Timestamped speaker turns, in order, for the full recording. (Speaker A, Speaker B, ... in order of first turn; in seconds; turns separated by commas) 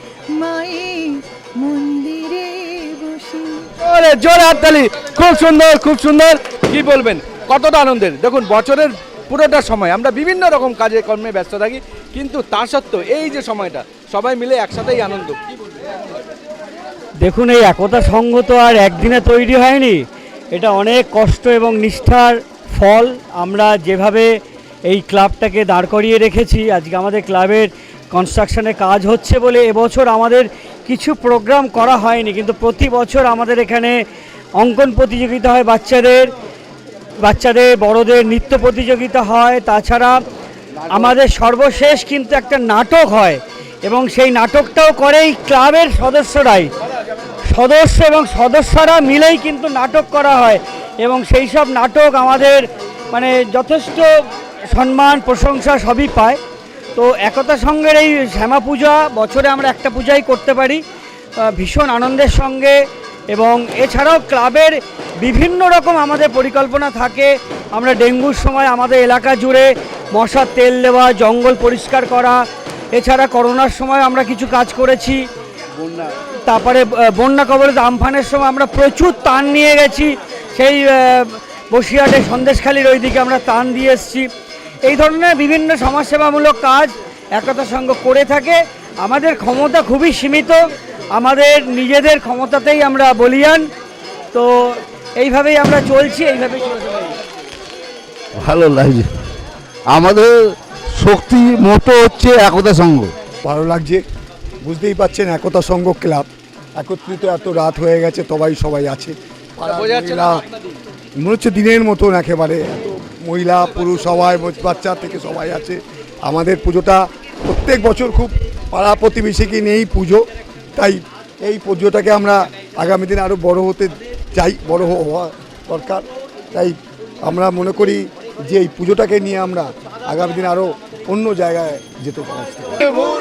Speaker A: 0.3-3.6, Speaker B: 3.8-15.5, Speaker C: 17.2-34.0, Speaker C: 34.6-36.3, Speaker C: 37.2-40.2, Speaker C: 40.9-46.7, Speaker C: 47.5-54.1, Speaker C: 54.7-56.4, Speaker C: 56.9-60.8, Speaker C: 61.4-62.8, Speaker C: 63.3-72.4, Speaker C: 72.9-75.2, Speaker C: 76.4-84.3, Speaker C: 84.8-90.6, Speaker C: 91.1-93.7, Speaker C: 94.3-97.1, Speaker D: 98.4-99.1, Speaker D: 99.9-103.1, Speaker E: 103.4-104.0, Speaker E: 104.6-110.4, Speaker B: 109.7-110.4, Speaker E: 111.2-132.9